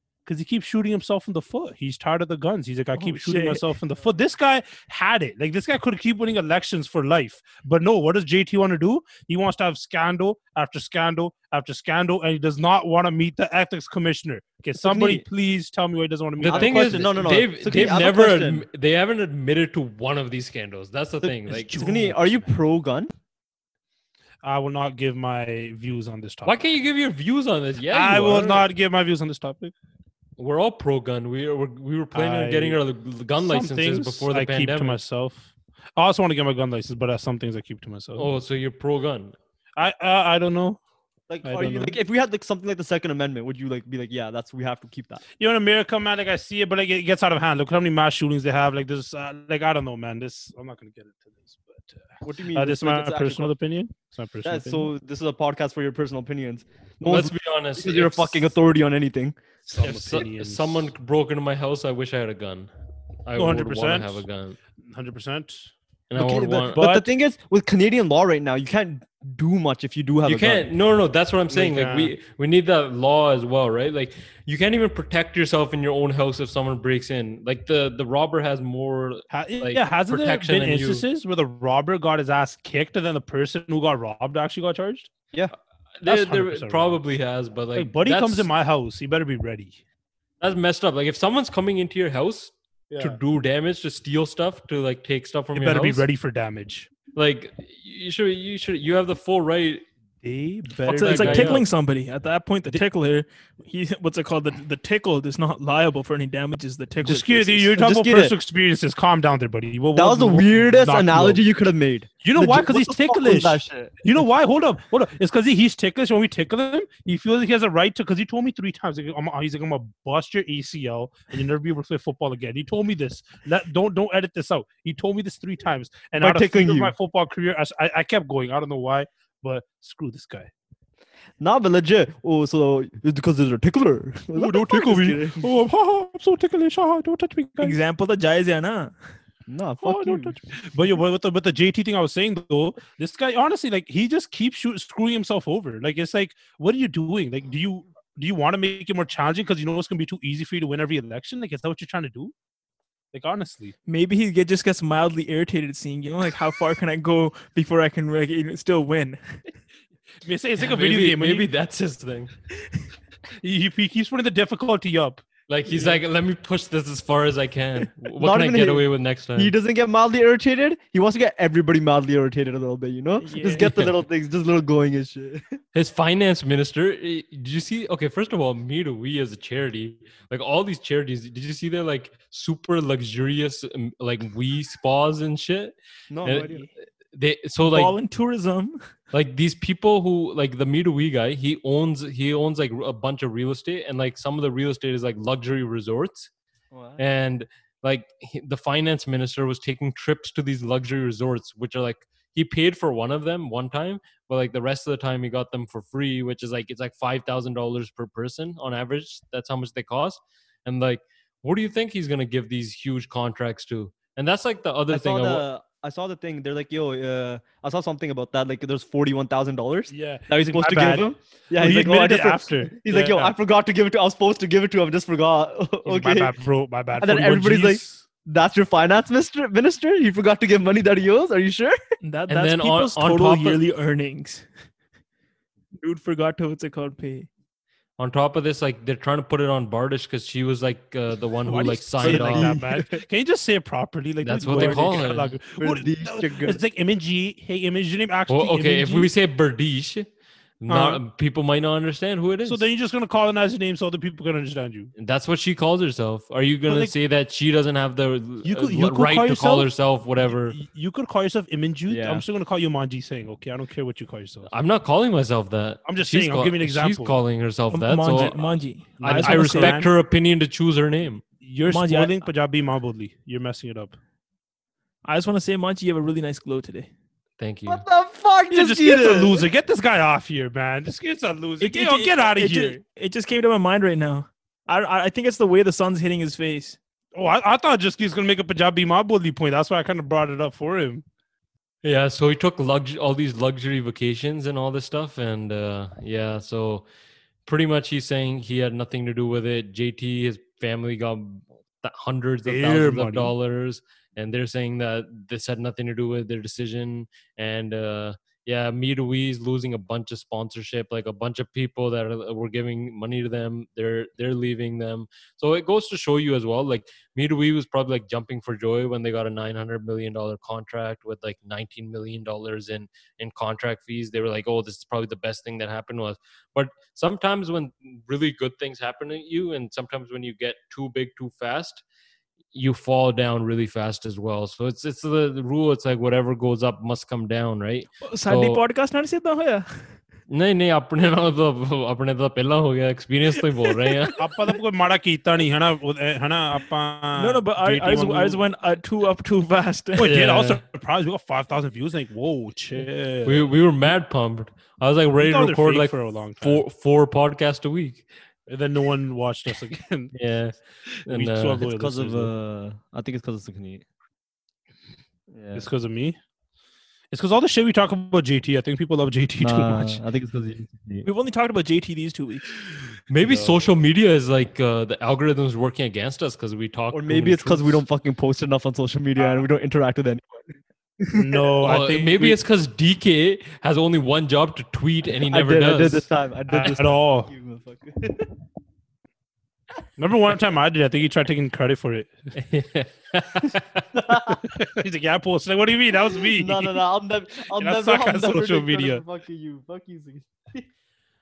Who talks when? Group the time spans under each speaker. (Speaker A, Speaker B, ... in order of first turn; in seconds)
Speaker A: 0.2-17.9, 21.5-22.5, 24.4-26.6, 27.9-29.7, 32.1-32.8, 33.4-38.3, 39.8-40.8, 41.4-42.0, 45.4-54.9, 59.6-60.9, 63.4-64.2, 64.8-65.7, 66.7-67.0, 71.5-72.1, 79.3-85.1, 86.0-87.0, 87.7-89.8, 92.9-93.2, 95.5-96.9, 100.2-101.6, 107.0-111.4, 112.2-130.5, 134.3-137.8, 139.8-152.3, 153.1-153.7, 160.2-161.5, 163.4-165.2, 219.9-223.3, 225.8-228.0, 241.5-249.1, 250.7-251.0, 252.4-254.9, 256.7-256.9, 258.4-259.7, 260.2-264.5, 265.8-267.2, 269.0-269.9, 271.4-274.0, 278.5-282.8, 287.1-291.0, 302.4-303.3, 344.1-348.4, 350.0-353.5, 355.2-356.6, 358.5-360.1, 361.1-362.3, 365.5-366.2, 367.1-370.0, 373.2-373.6, 379.2-379.4, 381.1-382.4, 386.5-387.3, 390.0-392.1, 394.5-396.8, 397.5-399.0
Speaker B: 3.0-3.7, 100.9-107.7, 137.6-138.9, 153.9-159.4, 173.2-173.7, 187.6-188.8, 232.0-234.4, 235.8-237.3, 267.7-269.8, 271.7-272.3, 275.0-276.9, 281.6-286.8, 338.0-339.8, 343.7-344.0, 347.1-350.1, 371.0-372.5
Speaker C: 14.8-15.2, 16.4-18.6, 21.2-23.1, 41.3-45.2, 52.2-53.5, 54.4-59.4, 66.2-70.7, 107.8-108.3, 109.9-113.9, 126.2-126.9, 131.4-135.4, 139.5-140.4, 168.2-175.5, 186.1-186.7, 196.7-197.0, 214.9-226.3, 226.9-231.8, 241.5-243.0, 245.6-246.6, 261.9-262.2, 277.6-279.5, 361.6-363.9, 365.3-365.7, 369.4-371.1, 376.9-381.5, 385.3-388.3, 393.9-394.4, 396.2-400.6
Speaker D: 16.4-21.8, 26.4-28.7, 30.4-35.0, 38.1-39.3, 57.0-58.5, 59.8-62.7, 63.2-64.6, 66.1-67.0, 70.2-81.0, 86.0-88.5, 90.4-96.0, 97.1-99.8, 100.9-101.6, 160.6-162.3, 165.5-169.5, 173.6-173.9, 175.7-187.9, 189.1-196.3, 197.0-215.4, 232.3-233.6, 238.0-242.5, 244.2-245.4, 248.3-250.1, 250.6-252.6, 255.0-260.6, 264.5-268.5, 269.0-271.2, 277.4-277.8, 291.8-296.8, 297.4-331.8, 332.5-338.6, 340.3-344.2, 350.0-350.6, 353.2-358.1, 360.1-361.6, 373.1-377.8, 381.6-386.1, 392.4-393.8